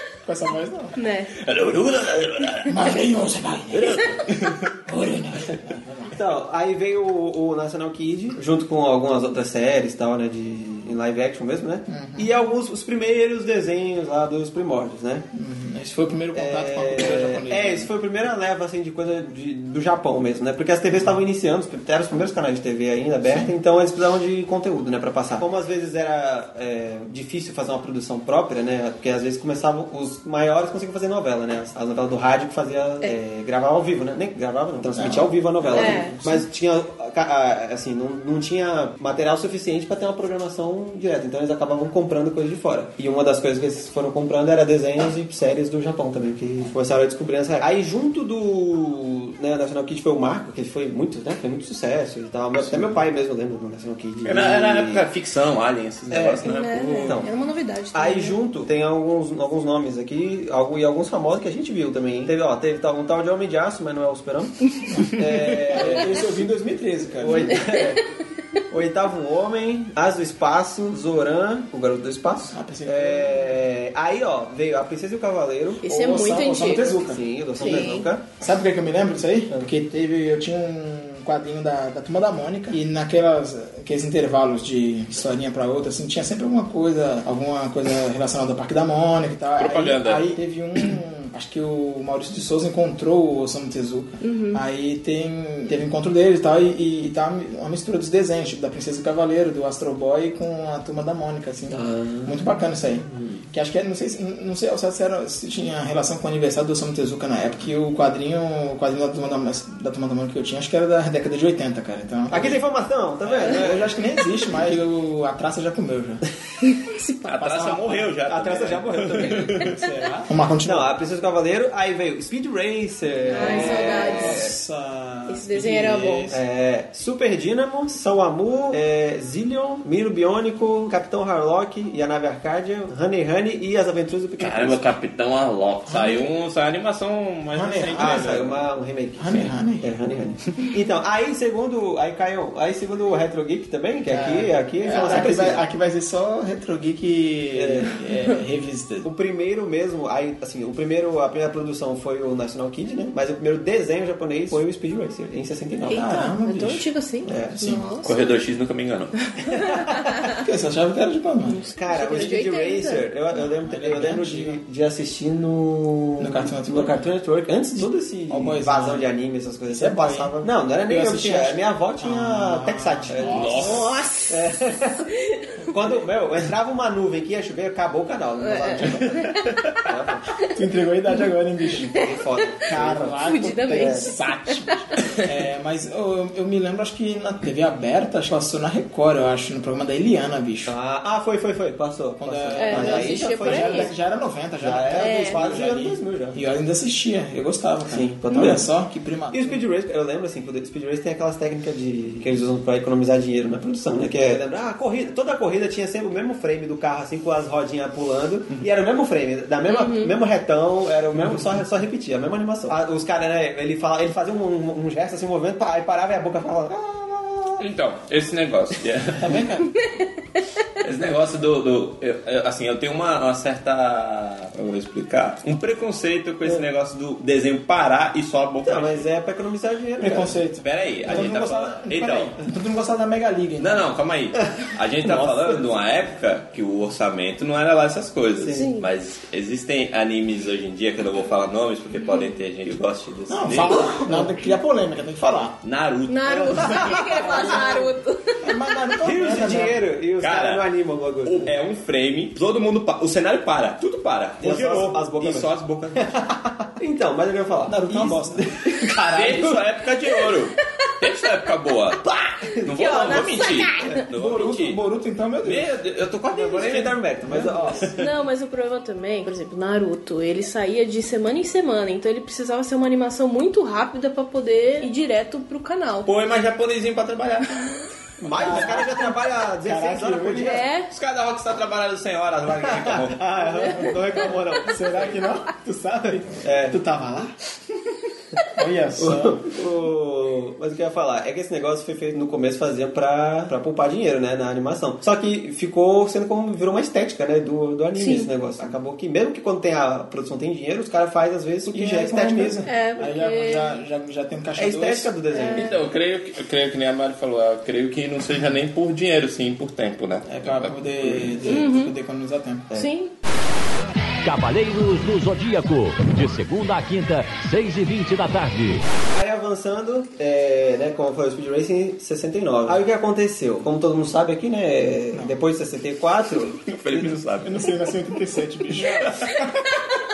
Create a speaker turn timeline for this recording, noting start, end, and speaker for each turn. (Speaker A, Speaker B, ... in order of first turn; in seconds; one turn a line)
Speaker A: 0.2-1.0
Speaker B: 1.0-1.3
Speaker C: 1.4-3.0
Speaker A: 2.6-6.2
Speaker C: 3.7-4.5
Speaker D: 6.1-15.3
Speaker A: 11.9-12.3
Speaker A: 15.3-17.9
Speaker D: 16.3-55.0
Speaker A: 34.9-36.5
Speaker B: 35.7-36.2
Speaker C: 54.2-57.2
Speaker D: 56.1-57.3
Speaker B: 56.4-58.4
Speaker D: 57.9-64.6
Speaker A: 64.9-67.6
Speaker D: 65.1-66.3
Speaker D: 67.2-68.1
Speaker B: 67.5-67.8
Speaker D: 68.7-75.8
Speaker A: 72.5-73.6
Speaker B: 75.8-77.0
Speaker A: 75.8-112.6
Speaker D: 77.0-78.2
Speaker B: 77.6-78.1
Speaker C: 89.6-90.4
Speaker B: 94.2-94.6
Speaker D: 101.7-102.4
Speaker D: 103.0-103.5
Speaker D: 112.3-113.9
Speaker A: 113.2-116.2
Speaker B: 116.8-117.8
Speaker C: 117.2-119.7
Speaker D: 118.0-119.7
Speaker A: 119.2-120.9
Speaker D: 120.6-124.5
Speaker A: 123.2-126.4
Speaker B: 123.3-124.5
Speaker B: 125.3-126.3
Speaker D: 126.3-134.8
Speaker C: 134.4-138.7
Speaker A: 135.9-136.3
Speaker A: 137.5-138.5
Speaker D: 138.0-145.6
Speaker A: 139.2-140.1
Speaker A: 144.1-149.1
Speaker D: 147.6-147.9
Speaker D: 149.0-156.1
Speaker B: 155.9-158.1
Speaker A: 155.9-156.9
Speaker D: 157.2-157.6
Speaker A: 157.5-157.8
Speaker C: 158.0-159.2
Speaker A: 160.4-161.6
Speaker B: 161.5-163.1
Speaker D: 161.8-173.7
Speaker A: 163.3-164.6
Speaker A: 166.2-166.9
Speaker A: 167.8-169.1
Speaker A: 169.7-173.8
Speaker C: 173.2-173.9
Speaker B: 173.5-174.4
Speaker D: 174.3-175.1
Speaker D: 175.7-180.3
Speaker B: 178.4-179.6
Speaker A: 180.5-182.0
Speaker D: 181.9-184.1
Speaker A: 182.7-190.7
Speaker B: 183.2-184.2
Speaker D: 190.7-193.9
Speaker A: 192.2-199.6
Speaker B: 192.6-193.9
Speaker D: 194.6-196.4
Speaker B: 195.0-195.4
Speaker D: 197.9-198.7
Speaker D: 199.3-217.6
Speaker B: 209.7-210.1
Speaker C: 217.6-219.4
Speaker A: 219.2-219.7
Speaker C: 220.8-229.1
Speaker D: 228.6-230.4
Speaker A: 230.0-233.9
Speaker C: 230.6-232.3
Speaker C: 233.6-243.9
Speaker D: 235.0-235.6
Speaker D: 238.4-238.7
Speaker B: 238.5-238.9
Speaker A: 243.3-245.6
Speaker C: 245.6-247.5
Speaker B: 246.1-248.6
Speaker D: 246.5-247.8
Speaker A: 247.1-247.8
Speaker A: 248.4-249.8
Speaker D: 249.0-251.5
Speaker C: 250.2-250.7
Speaker C: 251.2-256.2
Speaker D: 254.4-258.7
Speaker A: 257.7-259.6
Speaker C: 259.0-262.0
Speaker D: 262.0-263.2
Speaker C: 262.6-264.8
Speaker B: 262.8-263.9
Speaker A: 264.1-265.7
Speaker C: 265.4-267.0
Speaker D: 266.3-267.9
Speaker A: 267.2-267.9
Speaker C: 267.7-268.0
Speaker B: 268.0-276.1
Speaker C: 276.1-277.5
Speaker D: 278.2-280.6
Speaker A: 278.4-278.9
Speaker B: 278.5-278.9
Speaker A: 279.6-280.6
Speaker B: 280.4-280.9
Speaker C: 280.9-283.2
Speaker D: 282.8-285.1
Speaker B: 283.4-283.9
Speaker A: 284.7-287.4
Speaker D: 286.3-286.8
Speaker A: 288.6-289.4
Speaker D: 289.0-302.6
Speaker B: 298.0-298.3
Speaker A: 301.7-305.1
Speaker B: 302.6-303.8
Speaker D: 304.6-305.8
Speaker B: 305.3-305.8
Speaker C: 305.5-311.5
Speaker A: 310.3-312.7
Speaker B: 311.5-311.9
Speaker B: 312.7-313.1
Speaker E: 314.2-318.9
Speaker D: 319.1-327.1
Speaker C: 326.6-328.1
Speaker A: 327.4-329.7
Speaker C: 328.8-329.2